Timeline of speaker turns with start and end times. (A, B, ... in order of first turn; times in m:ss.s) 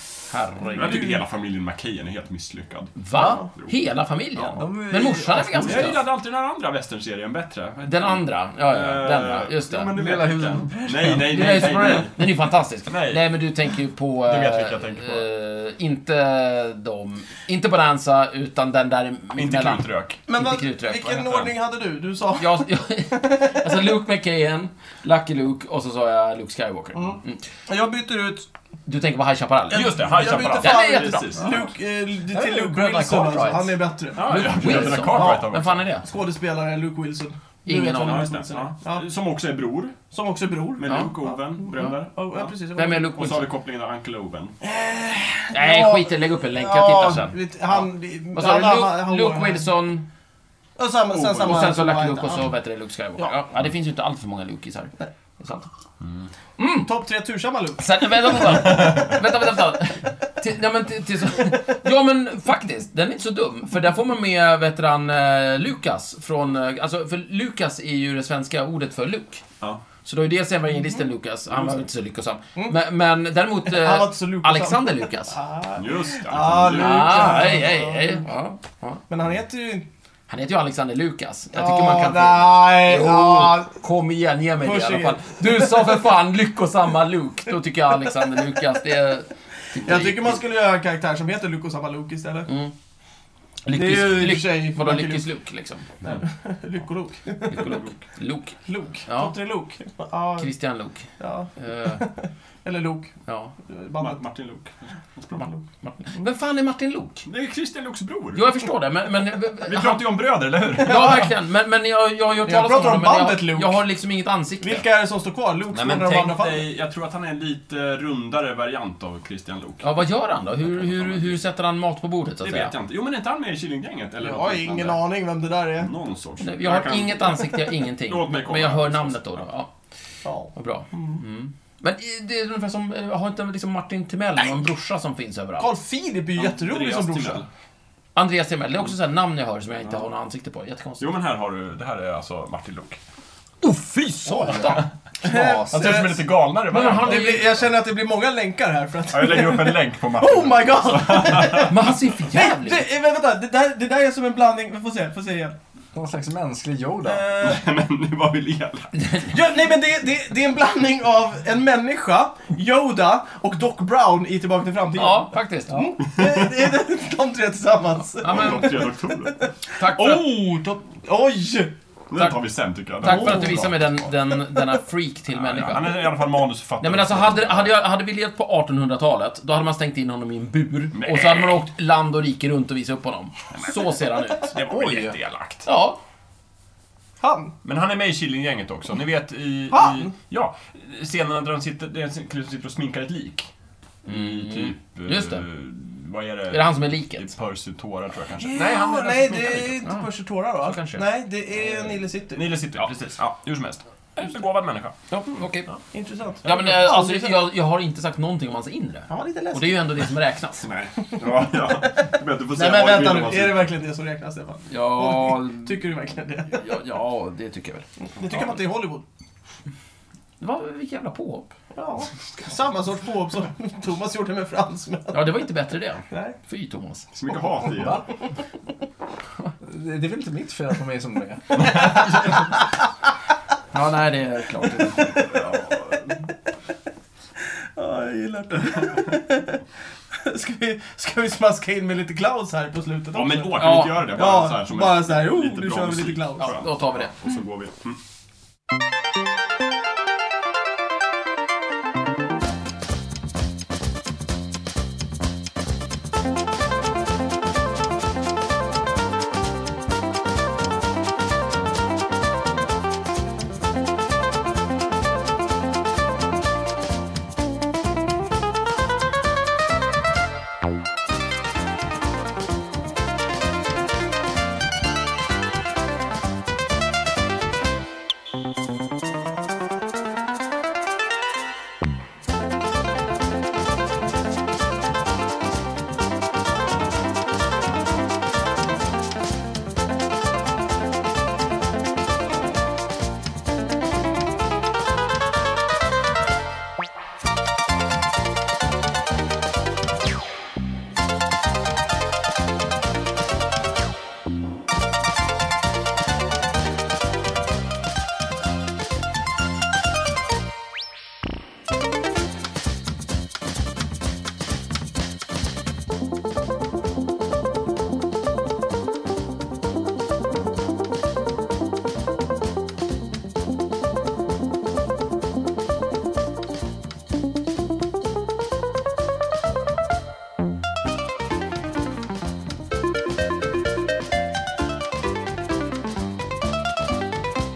0:00.3-0:01.1 A
0:00.7-0:01.2 B
0:00.7-0:03.7 C
0:03.0-0:06.0 A
0:03.1-0:03.4 B
0:04.3-0:04.7 C
0:04.6-0:06.0 D
0:05.2-0:12.3 C
0:07.8-0:09.9 A
0:09.9-0:11.6 D
0:11.2-0:21.3 A
0:12.9-0:13.3 C
0:14.2-0:15.2 C
0:19.4-0:20.2 C
0:20.3-0:22.6 B
0:22.4-0:27.4 A
0:23.1-0:23.6 B
0:26.9-0:28.5 B
0:28.8-0:31.6 A
0:29.7-0:39.0 B
0:29.7-0:31.6 C
0:32.3-0:33.8 D
0:33.2-0:33.6 A
0:34.2-0:35.8 C
0:34.2-0:36.0 A
0:37.6-0:38.3 A
0:38.0-0:40.0 C
0:40.1-0:43.1 B
0:40.8-0:42.5 C
0:40.9-0:41.1 A
0:42.7-0:43.5 A
0:43.0-0:44.5 C
0:44.6-0:49.7 B
0:45.5-0:47.3 A
0:48.3-0:50.0 A
0:50.8-0:52.5 B
0:51.1-0:51.6 C
0:51.2-0:55.7 A
0:56.0-0:56.3 C
0:56.6-0:56.9 A
0:56.8-0:58.4 B
0:57.8-1:09.4 A
0:58.8-0:59.1 C
1:10.0-1:15.4 A
1:13.7-1:18.2 B
1:15.8-1:17.7 C
1:16.7-1:19.0 A
1:19.1-1:19.8 B
1:20.3-1:30.4 A
1:21.5-1:23.7 B
1:24.6-1:25.7 B
1:29.8-1:32.5 B
1:32.4-1:32.7 A
1:33.6-1:36.0 A
1:33.7-1:35.2 B
1:36.2-1:37.7 B
1:37.5-1:39.3 A
1:37.6-1:37.9 C
1:38.6-1:40.5 B
1:40.4-1:41.1 A
1:41.2-1:43.1 B
1:41.6-1:42.0 A
1:43.2-1:43.5 A
1:43.7-1:44.2 B
1:44.0-1:45.4 C
1:45.3-1:47.3 A
1:47.2-1:48.5 C
1:48.3-1:50.1 A
1:49.6-1:51.3 C
1:50.7-1:54.8 A
1:50.9-1:51.2 B
1:52.4-1:53.8 B
1:54.6-1:56.6 B
1:55.7-1:59.8 C
1:59.8-2:02.7 A
2:00.6-2:01.4 C
2:02.4-2:05.0 C
2:04.2-2:05.9 B
2:05.8-2:09.4 C
2:06.4-2:09.7 A
2:10.2-2:11.2 B
2:10.5-2:15.7 A
2:15.6-2:17.4 B
2:16.4-2:17.5 C
2:18.1-2:21.1 A
2:21.0-2:23.0 C
2:23.6-2:24.8 A
2:24.2-2:26.1 D
2:25.2-2:35.6 B
2:25.7-2:27.6 C
2:26.6-2:27.5 A
2:29.1-2:32.0 C
2:31.6-2:32.8 A
2:35.9-2:37.2 D
2:37.0-2:37.6 B
2:37.4-2:39.1 C
2:39.2-2:51.7 B
2:45.0-2:45.9 A
2:46.2-2:46.7 C
2:48.2-2:48.8 A
2:48.2-2:49.4 C
2:49.8-2:50.4 A
2:52.1-2:54.1 C
2:52.1-2:52.4 A
2:53.0-2:56.0 A
2:53.0-2:53.7 B
2:55.3-2:57.8 C
2:56.8-3:04.6 A
3:00.9-3:01.6 C
3:03.5-3:05.7 C
3:05.6-3:06.0 A
3:07.2-3:07.5 B
3:07.6-3:13.5 C
3:09.7-3:10.1 B
3:14.0-3:15.4 A
3:14.0-3:19.9 C
3:16.5-3:17.3 A
3:18.4-3:22.5 B
3:20.6-3:21.0 A
3:22.3-3:24.9 C
3:25.2-3:25.8 A
3:25.8-3:27.4 B
3:26.4-3:30.7 A
3:29.1-3:29.8 B
3:30.6-3:33.7 C
3:32.5-3:36.6 B
3:34.7-3:35.8 A
3:36.5-3:37.8 A
3:38.2-3:39.0 B
3:40.4-3:41.5 A
3:41.7-3:45.2 B
3:45.1-3:47.1 A
3:46.1-3:46.4 B
3:47.1-3:48.1 C
3:49.6-3:52.0 D
3:51.6-3:52.4 C
3:53.7-3:55.2 A
3:55.0-3:56.0 C
3:55.0-3:55.7 B
3:57.7-3:59.6 B
4:00.1-4:06.6 B
4:03.1-4:08.0 C
4:03.5-4:04.1 A
4:06.4-4:07.1 A